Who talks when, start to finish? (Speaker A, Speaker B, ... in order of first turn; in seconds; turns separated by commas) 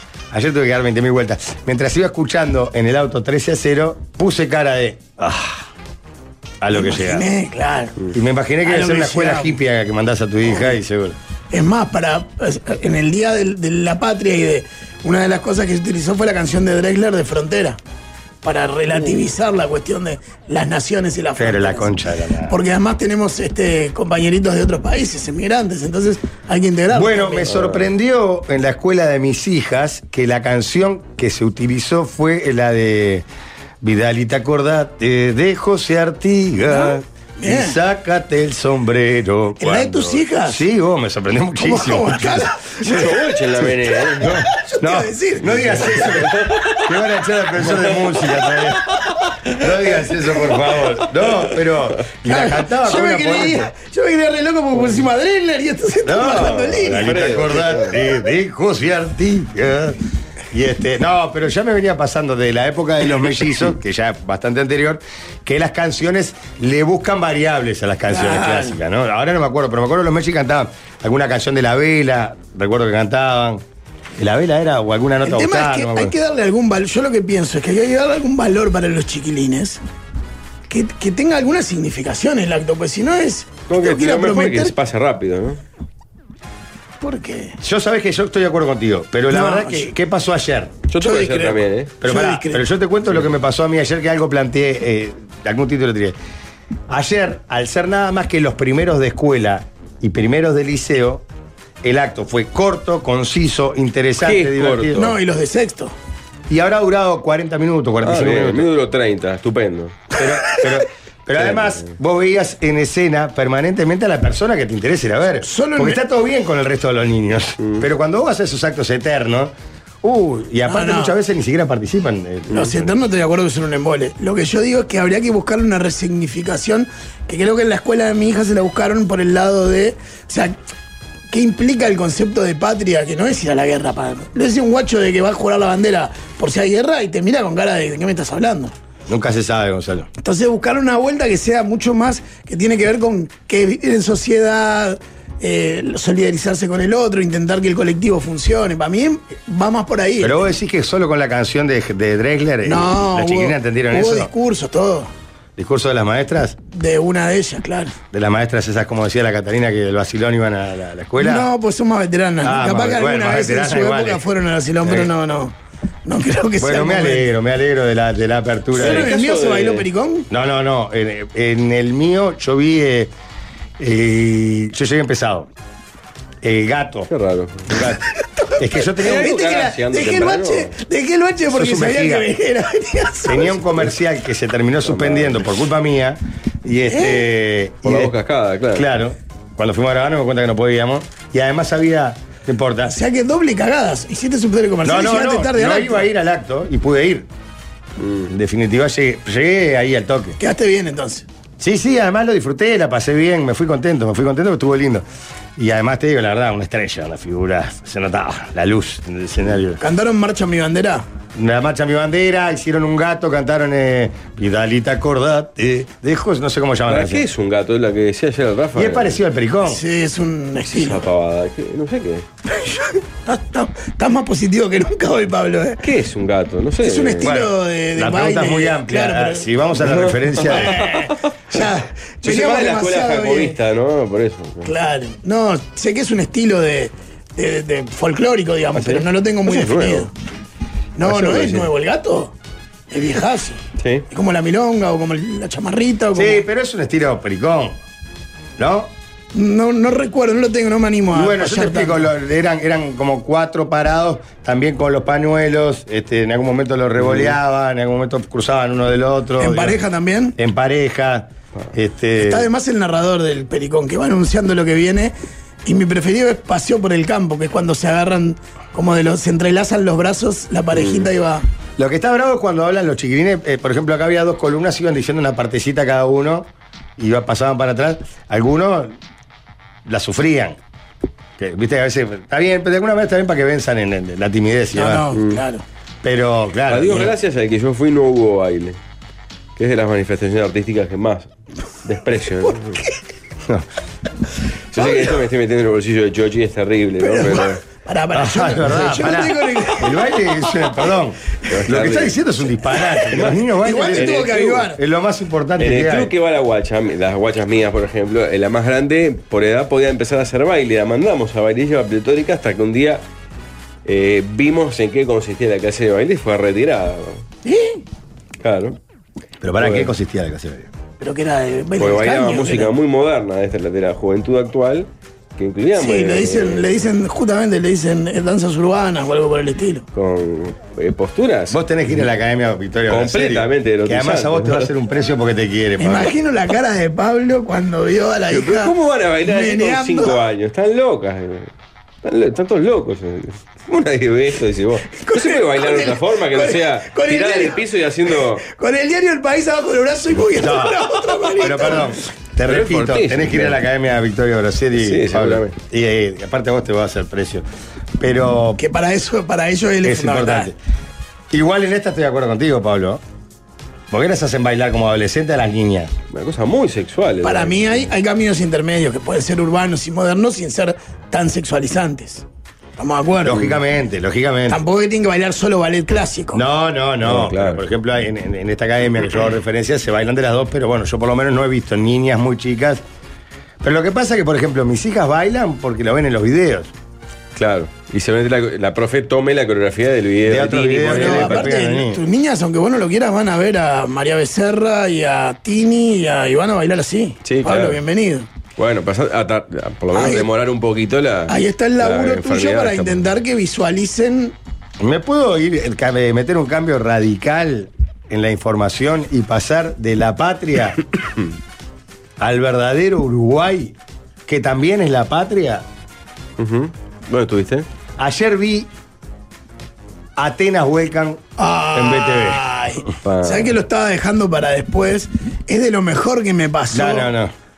Speaker A: 0.3-5.7, Speaker A: 6.6-7.2, Speaker B: 6.7-8.0, Speaker A: 8.1-11.2, Speaker B: 8.6-9.6, Speaker B: 11.5-17.8, Speaker B: 18.4-21.9, Speaker A: 21.4-22.6, Speaker B: 22.5-27.8, Speaker A: 26.9-33.3, Speaker A: 33.8-48.8, Speaker B: 36.7-37.8, Speaker B: 39.6-40.6, Speaker B: 41.6-42.9, Speaker C: 42.8-44.4, Speaker B: 44.2-46.1, Speaker C: 46.0-46.9, Speaker C: 47.6-48.4, Speaker A: 49.6-53.7, Speaker B: 52.2-57.1, Speaker A: 56.0-60.0, Speaker C: 56.2-58.0, Speaker A: 60.5-73.6, Speaker B: 68.1-68.7, Speaker A: 74.2-76.1, Speaker B: 75.2-79.8, Speaker B: 80.7-84.7, Speaker C: 83.7-85.6, Speaker B: 87.0-87.5, Speaker A: 87.6-90.8, Speaker B: 89.3-89.9, Speaker C: 90.9-91.9, Speaker B: 91.0-92.6, Speaker A: 92.0-96.2, Speaker A: 96.9-101.2, Speaker A: 101.8-105.1, Speaker C: 104.2-105.1, Speaker B: 105.0-105.9, Speaker A: 106.5-108.7, Speaker C: 108.0-110.1, Speaker A: 110.1-122.9, Speaker C: 111.4-111.9, Speaker B: 115.4-116.0, Speaker B: 120.7-121.1, Speaker B: 122.5-130.6, Speaker B: 131.3-138.7, Speaker A: 139.1-140.1, Speaker B: 140.2-150.4, Speaker A: 150.2-154.3, Speaker B: 152.6-155.1, Speaker A: 155.6-156.6, Speaker B: 156.7-157.9, Speaker A: 158.1-161.5, Speaker B: 161.2-165.5, Speaker A: 162.4-164.2, Speaker B: 166.1-167.3, Speaker A: 166.6-169.1, Speaker B: 168.7-170.3, Speaker C: 168.8-169.8, Speaker A: 170.3-173.1, Speaker A: 173.8-175.5, Speaker A: 176.4-177.1, Speaker C: 177.1-177.8, Speaker A: 177.7-178.0, Speaker B: 178.2-183.7, Speaker A: 178.6-179.4, Speaker C: 179.0-180.7, Speaker A: 181.5-182.3, Speaker A: 183.2-188.1, Speaker C: 184.8-185.4, Speaker B: 186.9-187.2, Speaker C: 187.8-188.9, Speaker A: 188.7-193.0, Speaker B: 192.8-196.0, Speaker A: 194.8-197.3, Speaker C: 198.0-198.3, Speaker A: 198.3-200.4, Speaker B: 200.4-201.2, Speaker A: 201.6-205.0, Speaker A: 205.6-209.8, Speaker B: 209.8-211.0, Speaker A: 211.3-217.2, Speaker C: 216.9-219.2, Speaker A: 218.7-219.8, Speaker B: 219.7-221.0, Speaker C: 220.7-222.2, Speaker B: 222.5-225.8, Speaker C: 225.8-227.3, Speaker B: 226.8-229.5, Speaker A: 227.2-231.1, Speaker C: 229.8-231.6, Speaker B: 230.7-233.6, Speaker C: 232.2-234.7, Speaker B: 234.6-240.1, Speaker C: 238.7-240.1, Speaker B: 241.0-242.3, Speaker C: 241.0-241.7, Speaker B: 242.9-246.4, Speaker C: 243.8-244.0, Speaker A: 246.1-247.8, Speaker A: 248.6-248.9, Speaker B: 249.3-252.1, Speaker A: 251.1-259.8, Speaker C: 257.0-257.3, Speaker B: 259.4-260.4, Speaker A: 260.4-262.5, Speaker B: 262.2-265.1, Speaker B: 265.6-271.4, Speaker C: 270.7-271.1, Speaker A: 271.8-278.9, Speaker A: 279.9-280.6, Speaker A: 281.4-285.1, Speaker B: 284.7-285.6, Speaker C: 285.1-285.4, Speaker A: 286.0-287.1, Speaker C: 286.7-288.8, Speaker C: 289.6-291.3, Speaker C: 291.8-292.8, Speaker B: 292.5-292.9, Speaker C: 294.7-297.6, Speaker B: 297.0-299.9, Speaker A: 298.1-306.1, Speaker C: 301.5-302.1, Speaker C: 303.1-304.7, Speaker B: 303.6-304.8, Speaker C: 305.6-313.0, Speaker C: 313.8-317.2, Speaker B: 317.4-317.8, Speaker C: 318.4-318.8, Speaker A: 319.4-320.7, Speaker C: 319.6-319.9, Speaker B: 321.0-322.7, Speaker C: 321.8-326.9, Speaker B: 325.8-329.8, Speaker C: 329.9-331.6, Speaker A: 331.5-336.1, Speaker C: 332.9-334.7, Speaker B: 335.8-338.7, Speaker C: 338.3-341.5, Speaker B: 339.2-340.2, Speaker C: 342.0-348.4, Speaker B: 344.9-347.6, Speaker B: 348.4-351.9, Speaker A: 350.4-357.4, Speaker C: 352.4-353.6, Speaker C: 354.8-355.5, Speaker A: 358.0-358.6, Speaker B: 358.6-360.5, Speaker A: 359.8-360.6, Speaker A: 361.3-363.0, Speaker A: 363.9-365.9, Speaker C: 366.1-367.9, Speaker B: 367.2-372.2, Speaker B: 372.8-373.5, Speaker A: 373.2-374.6, Speaker B: 374.5-376.4, Speaker A: 376.3-382.8, Speaker C: 377.0-377.6, Speaker A: 383.6-386.7, Speaker C: 387.4-391.5, Speaker A: 390.2-392.0, Speaker B: 390.9-398.2, Speaker C: 397.2-397.8, Speaker C: 398.6-403.1, Speaker B: 399.9-400.3, Speaker B: 401.3-404.3, Speaker A: 404.8-410.8, Speaker A: 412.2-413.8, Speaker A: 414.3-415.6, Speaker C: 416.4-417.6, Speaker A: 418.0-418.7, Speaker A: 420.2-422.4, Speaker B: 421.4-427.1, Speaker C: 423.0-423.5, Speaker A: 426.7-427.3